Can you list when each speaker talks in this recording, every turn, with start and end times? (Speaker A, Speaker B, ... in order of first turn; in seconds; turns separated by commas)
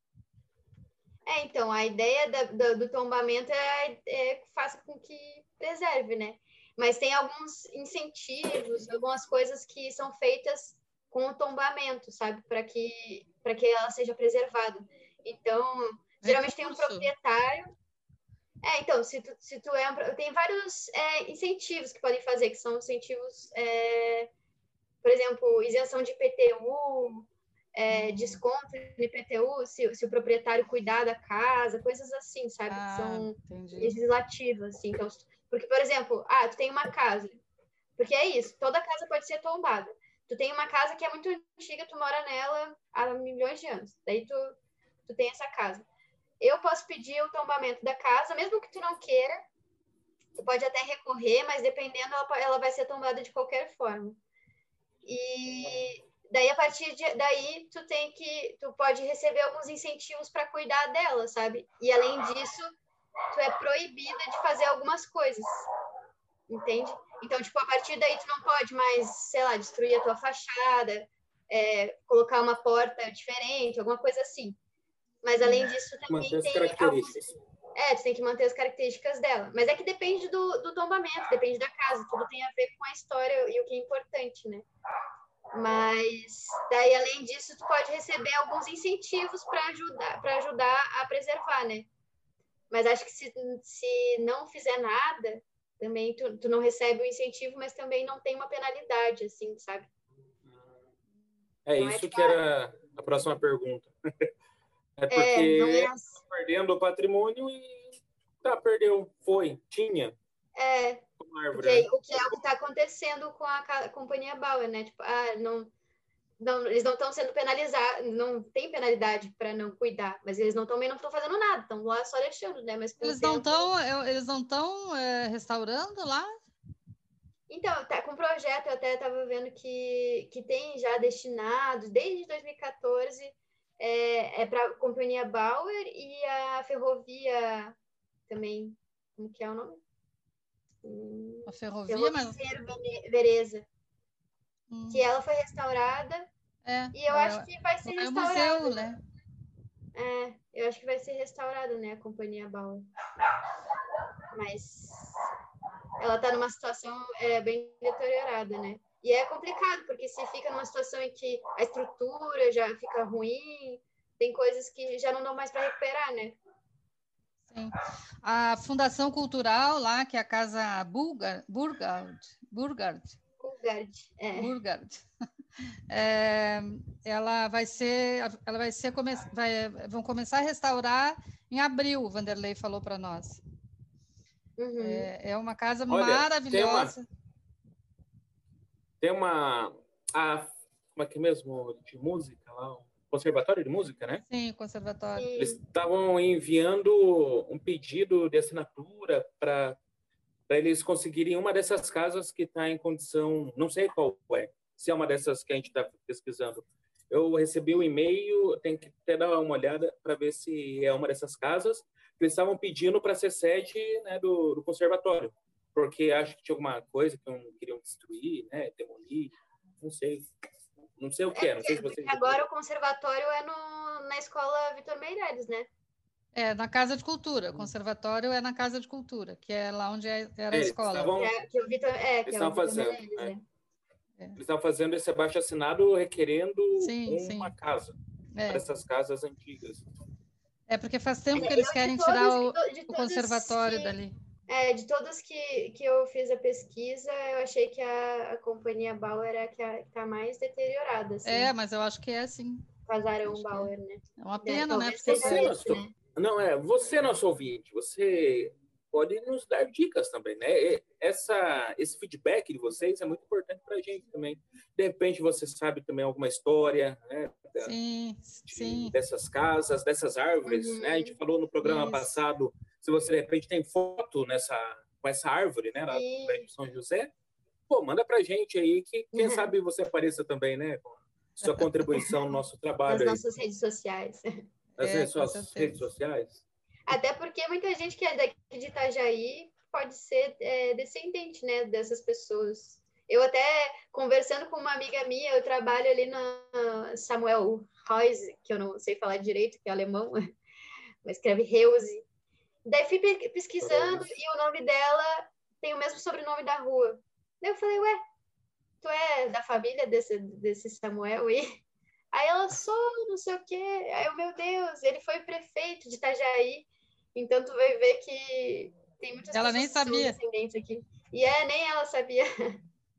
Speaker A: 1.2-17.7, Speaker B: 16.2-17.1, Speaker A: 18.6-24.3, Speaker A: 25.0-37.4, Speaker B: 27.9-28.4, Speaker B: 32.7-34.0, Speaker A: 38.0-44.5, Speaker A: 45.0-45.9, Speaker A: 46.4-49.4, Speaker A: 50.4-54.2, Speaker A: 55.0-62.7, Speaker A: 63.3-65.5, Speaker A: 66.5-74.6, Speaker A: 75.2-77.2, Speaker C: 76.1-77.3, Speaker A: 77.7-84.7, Speaker A: 85.5-91.9, Speaker A: 92.7-99.9, Speaker C: 101.7-104.3, Speaker A: 101.8-102.4, Speaker C: 105.0-110.2, Speaker A: 105.1-106.2, Speaker A: 110.5-115.7, Speaker C: 111.2-111.9, Speaker A: 116.4-123.7, Speaker B: 123.0-126.3, Speaker A: 127.5-137.7, Speaker A: 138.3-139.8, Speaker A: 140.8-143.7, Speaker B: 141.5-142.4, Speaker B: 144.7-145.0, Speaker A: 144.9-146.3, Speaker B: 146.6-149.0, Speaker A: 146.9-148.9, Speaker A: 149.9-152.9, Speaker A: 154.3-155.3, Speaker A: 156.0-166.4, Speaker B: 167.5-173.2, Speaker A: 173.4-174.5, Speaker B: 174.3-175.0, Speaker B: 175.9-183.4, Speaker A: 184.6-185.1, Speaker B: 184.8-187.0, Speaker C: 185.9-186.9, Speaker C: 189.0-194.2, Speaker B: 194.3-195.3, Speaker A: 195.2-195.6, Speaker C: 195.3-199.8, Speaker C: 200.5-220.3, Speaker C: 221.0-222.4, Speaker A: 221.3-225.7, Speaker B: 226.3-231.1, Speaker C: 230.5-231.3, Speaker A: 231.1-233.4, Speaker C: 232.2-233.3, Speaker C: 234.3-237.9, Speaker B: 236.8-237.5, Speaker B: 238.3-238.6, Speaker C: 238.5-239.8, Speaker B: 240.7-244.1, Speaker A: 241.3-243.9, Speaker A: 244.5-251.5, Speaker B: 251.2-252.7, Speaker A: 252.9-255.9, Speaker B: 253.3-255.5, Speaker C: 255.0-267.7, Speaker B: 267.6-268.9, Speaker C: 268.5-277.1, Speaker A: 270.4-271.1, Speaker B: 271.6-272.2, Speaker A: 275.9-276.4, Speaker C: 277.7-283.2, Speaker A: 279.1-279.5, Speaker B: 281.4-282.1, Speaker A: 282.9-284.3, Speaker C: 284.8-286.4, Speaker B: 284.8-285.8, Speaker A: 286.9-300.3, Speaker A: 301.0-302.0, Speaker A: 302.6-308.0, Speaker C: 303.6-304.1, Speaker A: 308.8-311.6, Speaker A: 312.1-322.6, Speaker B: 319.3-320.2